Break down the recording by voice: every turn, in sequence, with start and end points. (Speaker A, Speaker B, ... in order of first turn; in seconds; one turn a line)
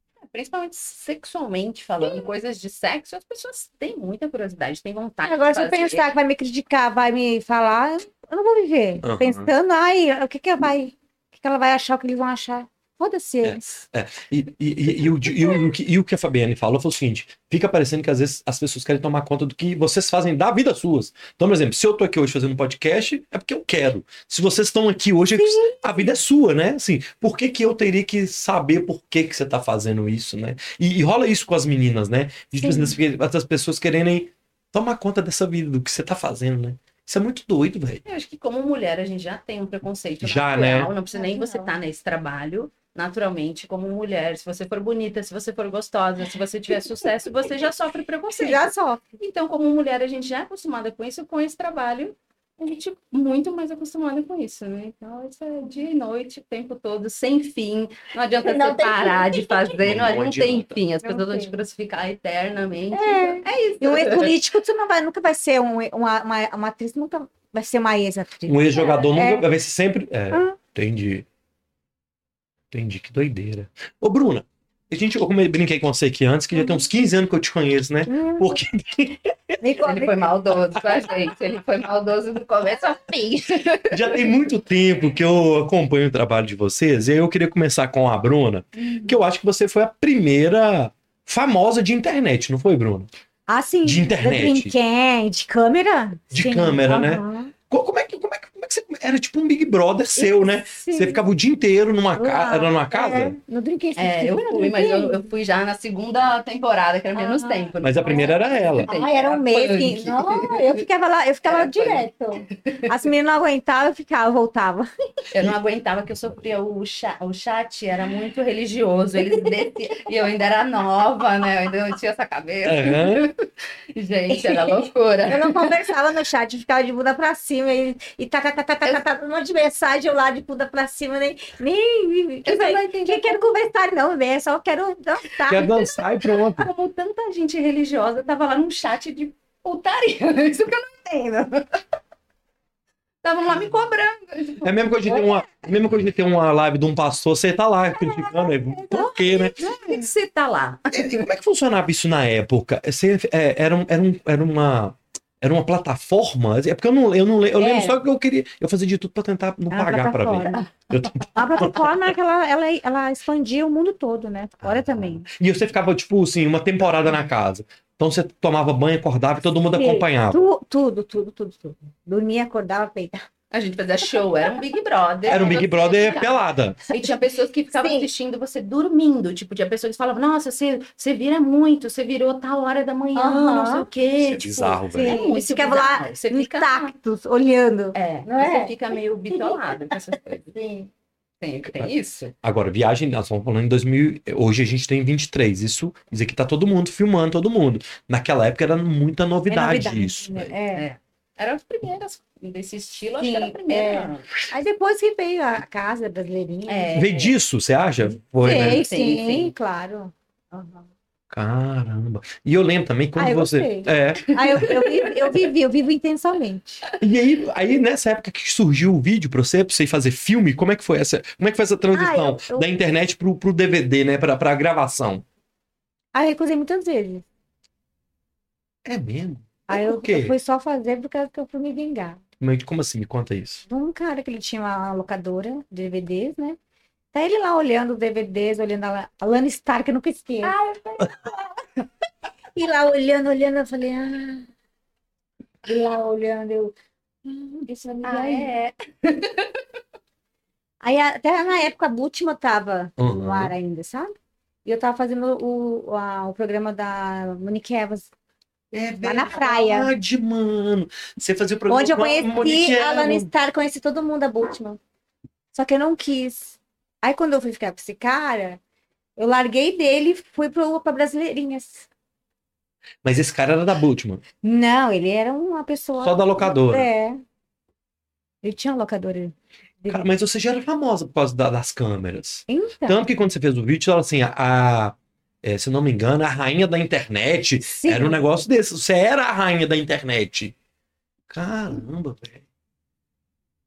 Speaker A: 0.2-6.1
Speaker B: 2.0-2.3
Speaker B: 5.2-13.8
Speaker C: 9.0-9.5
Speaker C: 13.4-38.0
Speaker B: 25.3-26.2
Speaker B: 32.6-33.0
Speaker A: 38.0-64.4
Speaker C: 40.2-40.9
Speaker B: 41.1-41.7
Speaker B: 48.4-49.0
Speaker B: 58.4-59.8
Speaker C: 59.8-60.8
Speaker B: 61.0-61.6
Speaker B: 62.9-69.5
Speaker C: 68.5-71.2
Speaker B: 70.3-70.6
Speaker C: 72.7-79.5
Speaker B: 78.1-78.6
Speaker B: 79.6-80.3
Speaker A: 79.8-84.3
Speaker C: 83.9-93.1
Speaker B: 88.8-89.2
Speaker B: 93.5-97.5
Speaker C: 93.8-94.7
Speaker C: 96.3-103.3
Speaker B: 100.2-101.2
Speaker B: 102.1-105.2
Speaker A: 104.0-110.8
Speaker B: 107.1-108.3
Speaker C: 107.8-108.9
Speaker B: 108.8-114.9
Speaker A: 111.5-113.0
Speaker A: 115.3-125.9
Speaker C: 122.6-123.2
Speaker B: 124.3-124.7
Speaker B: 125.3-135.9
Speaker A: 132.4-133.6
Speaker C: 135.5-136.7
Speaker A: 135.9-141.7
Speaker A: 143.2-145.2
Speaker C: 144.6-149.6
Speaker B: 147.9-150.1
Speaker A: 148.9-151.2
Speaker C: 150.9-161.9
Speaker B: 157.6-158.0
Speaker B: 159.7-160.6
Speaker B: 161.3-165.3
Speaker C: 164.6-170.5
Speaker B: 169.7-173.3
Speaker A: 173.5-176.4
Speaker C: 175.2-176.8
Speaker A: 176.9-186.9
Speaker B: 177.7-178.1
Speaker B: 183.1-183.9
Speaker C: 184.2-185.2
Speaker B: 184.9-188.8
Speaker A: 187.9-190.5
Speaker B: 189.3-190.9
Speaker A: 191.4-192.3
Speaker C: 192.4-200.5
Speaker B: 199.5-200.8
Speaker A: 200.7-204.3
Speaker B: 203.2-207.1
Speaker A: 206.7-207.3
Speaker C: 206.9-208.8
Speaker B: 208.4-210.9
Speaker A: 208.4-209.5
Speaker C: 211.3-214.8
Speaker B: 213.2-216.8
Speaker A: 214.6-215.3
Speaker C: 217.0-225.2
Speaker B: 221.9-222.7
Speaker B: 226.1-227.2
Speaker C: 228.8-230.3
Speaker B: 229.7-232.2
Speaker C: 232.4-233.6
Speaker B: 233.7-236.6
Speaker B: 237.1-241.1
Speaker A: 240.4-241.1
Speaker B: 242.5-244.5
Speaker B: 245.6-248.5
Speaker A: 248.0-249.6
Speaker B: 250.8-258.1
Speaker C: 253.0-253.5
Speaker C: 258.7-263.3
Speaker B: 259.0-259.9
Speaker B: 261.7-264.8
Speaker B: 265.5-268.6
Speaker B: 269.2-271.9
Speaker C: 273.0-274.2
Speaker B: 274.4-277.2
Speaker C: 276.0-276.9
Speaker B: 278.4-280.1
Speaker C: 279.9-290.5
Speaker B: 282.5-283.0
Speaker B: 287.6-288.2
Speaker C: 291.3-292.4